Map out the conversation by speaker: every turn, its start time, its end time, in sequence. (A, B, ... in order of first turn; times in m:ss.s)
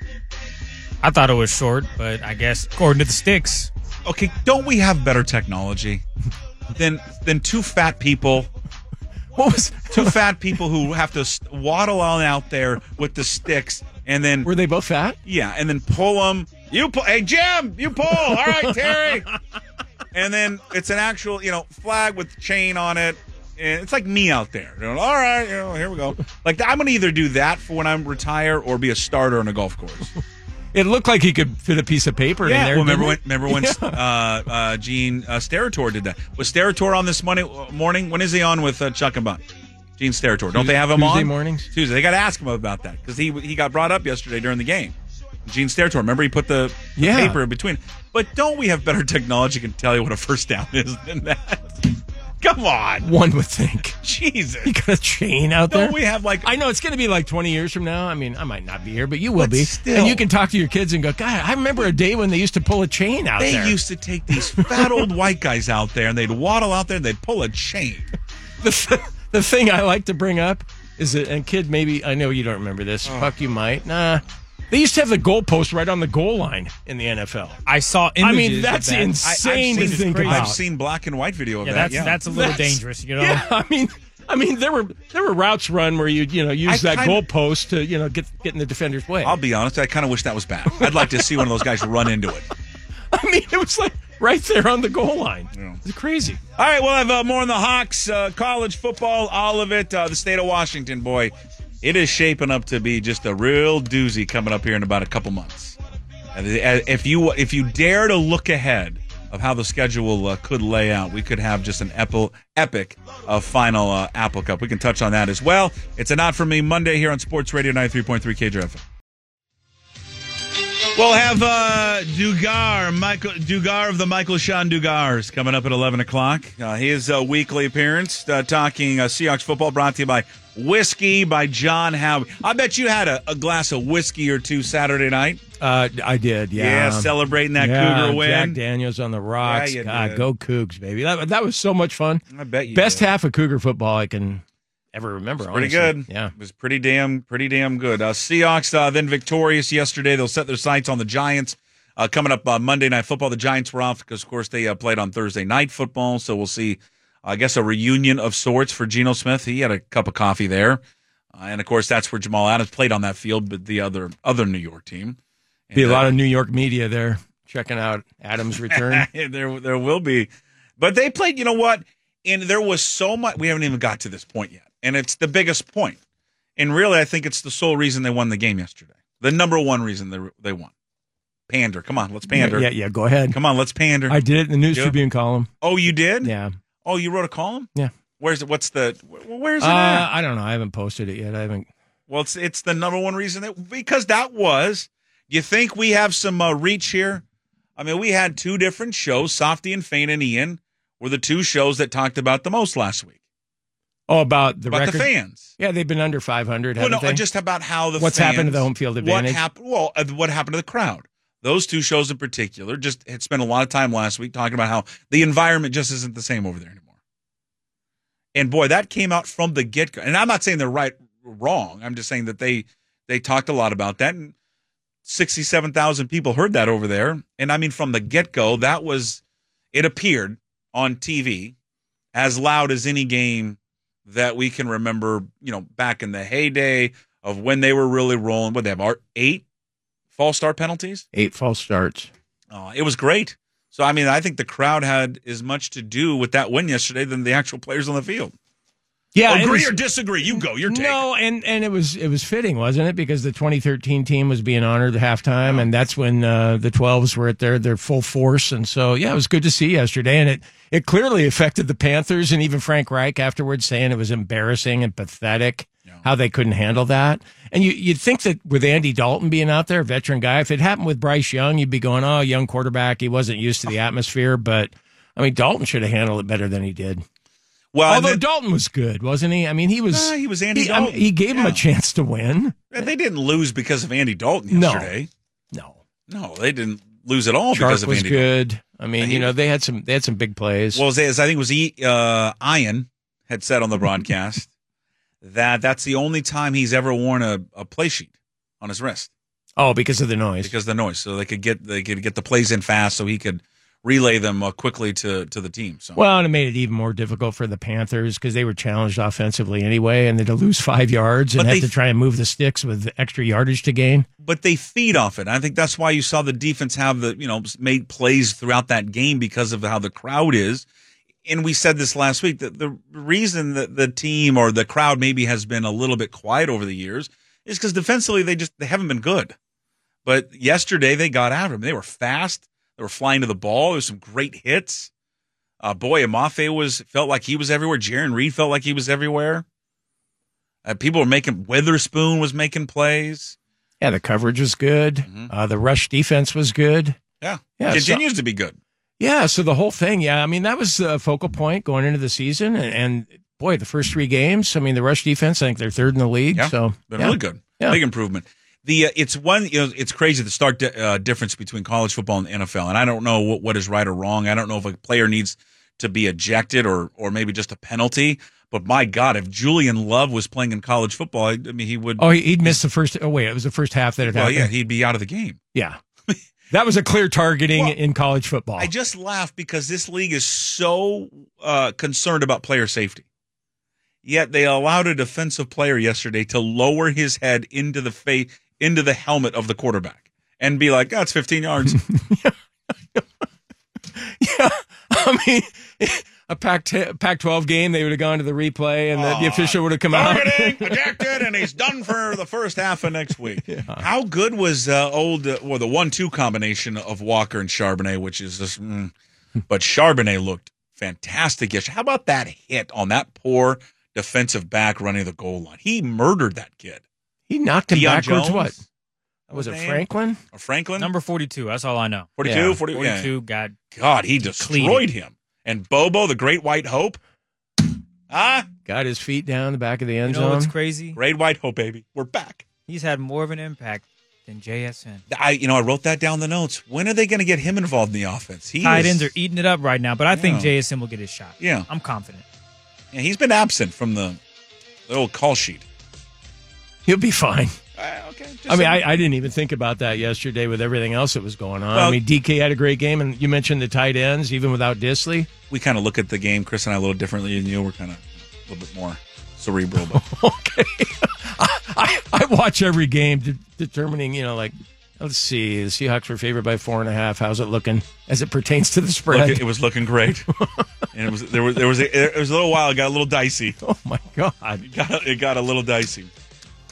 0:01.0-0:03.7 A
0:04.0-0:06.0 B
0:06.7-0:08.5 B
0:09.4-0:10.2 C
0:09.9-0:14.5 B
0:14.4-0:15.2 C
0:15.2-0:19.3 B
0:18.2-0:19.2 C
0:20.1-0:30.1 B
0:30.7-0:34.0 C
0:32.4-0:39.4 B
0:40.0-0:53.1 B
0:40.5-0:41.7 C
0:47.0-0:47.4 C
0:53.0-0:54.0 C
0:54.0-0:54.7 B
0:54.6-1:03.8 C
0:55.7-0:56.5 B
0:59.4-1:00.2 B
1:03.4-1:08.1 B
1:04.3-1:05.1 C
1:08.6-1:17.6 C
1:13.0-1:13.3 B
1:17.6-1:20.6 A
1:18.2-1:20.6 C
1:19.2-1:22.2 B
1:21.6-1:23.4 A
1:22.2-1:29.4 C
1:26.6-1:27.2 B
1:29.2-1:32.5 B
1:30.8-1:31.4 C
1:33.1-1:36.4 C
1:35.5-1:35.8 B
1:36.6-1:45.8 B
1:46.3-1:58.8 B
2:00.9-2:15.4 B
2:15.6-2:24.4 C
2:16.6-2:18.6 B
2:19.4-2:20.2 B
2:22.3-2:23.1 B
2:24.9-2:26.3 C
2:25.4-2:40.8 B
2:41.3-2:45.2 B
2:45.7-2:46.1 B
2:45.7-2:49.1 C
2:48.7-2:56.0 B
2:56.6-3:00.7 B
3:01.5-3:02.7 B
3:02.3-3:03.4 C
3:03.3-3:04.2 B
3:04.1-3:05.5 C
3:04.7-3:05.0 B
3:05.6-3:06.3 B
3:06.2-3:06.5 C
3:06.8-3:10.1 B
3:09.6-3:11.7 C
3:12.1-3:17.2 B
3:17.8-3:23.2 B
3:24.1-3:27.2 C
3:24.7-3:25.6 B
3:26.8-3:36.9 B
3:28.0-3:29.4 C
3:38.3-3:44.3 B
3:45.0-3:49.2 B
3:49.7-3:51.5 B
3:52.1-3:59.4 B
4:00.1-4:01.0 B
4:01.1-4:02.1 C
4:02.5-4:08.3 B
4:09.1-4:37.0 C
4:09.3-4:11.0 B
4:37.7-4:38.2 B
4:37.8-4:42.9 C
4:39.9-4:41.6 B
4:42.7-4:45.1 B
4:44.5-4:44.9 C
4:45.5-4:45.8 C
4:46.1-4:48.3 B
4:47.5-4:50.8 C
4:49.0-4:49.3 B
4:50.7-4:54.5 B
4:55.2-4:59.1 B
4:59.6-5:00.5 C
5:00.4-5:06.0 B
5:06.0-5:14.1 C
5:11.4-5:11.7 B
5:14.2-5:20.6 B
5:21.2-5:29.3 B
5:30.0-5:34.9 B
5:35.6-5:39.4 B
5:40.6-5:43.4 B
5:43.8-5:47.0 C
5:45.0-5:45.3 B
5:47.2-5:48.6 B
5:47.6-5:48.0 C
5:49.0-5:57.8 C
5:56.3-6:12.6 B
6:12.0-6:14.5 C
6:14.0-6:15.4 B
6:16.5-6:18.7 C
6:18.6-6:23.0 B
6:24.0-6:31.8 B
6:31.7-6:32.3 C
6:34.0-6:41.3 C
6:38.9-6:48.9 B
6:43.5-6:43.8 C
6:49.5-6:56.8 B
6:57.3-6:58.6 C
6:57.7-6:58.6 B
6:59.3-7:00.9 B
6:59.3-7:00.2 C
7:00.8-7:02.1 A
7:02.2-7:03.1 B
7:02.2-7:02.6 C
7:02.7-7:03.6 A
7:03.7-7:07.0 B
7:04.2-7:04.8 A
7:08.1-7:08.5 B
7:08.7-7:10.5 C
7:10.1-7:11.0 A
7:10.9-7:12.4 B
7:12.7-7:15.0 A
7:15.1-7:19.1 B
7:18.6-7:22.2 A
7:20.1-7:20.5 B
7:21.4-7:21.7 B
7:22.9-7:24.2 B
7:24.9-7:25.6 B
7:26.8-7:27.6 C
7:27.8-7:28.8 B
7:28.5-7:35.3 C
7:31.7-7:32.0 B
7:35.5-7:40.0 B
7:39.9-7:49.4 C
7:49.1-7:50.3 B
7:50.4-7:50.7 C
7:50.9-7:53.6 B
7:53.6-7:54.7 C
7:54.6-7:56.1 B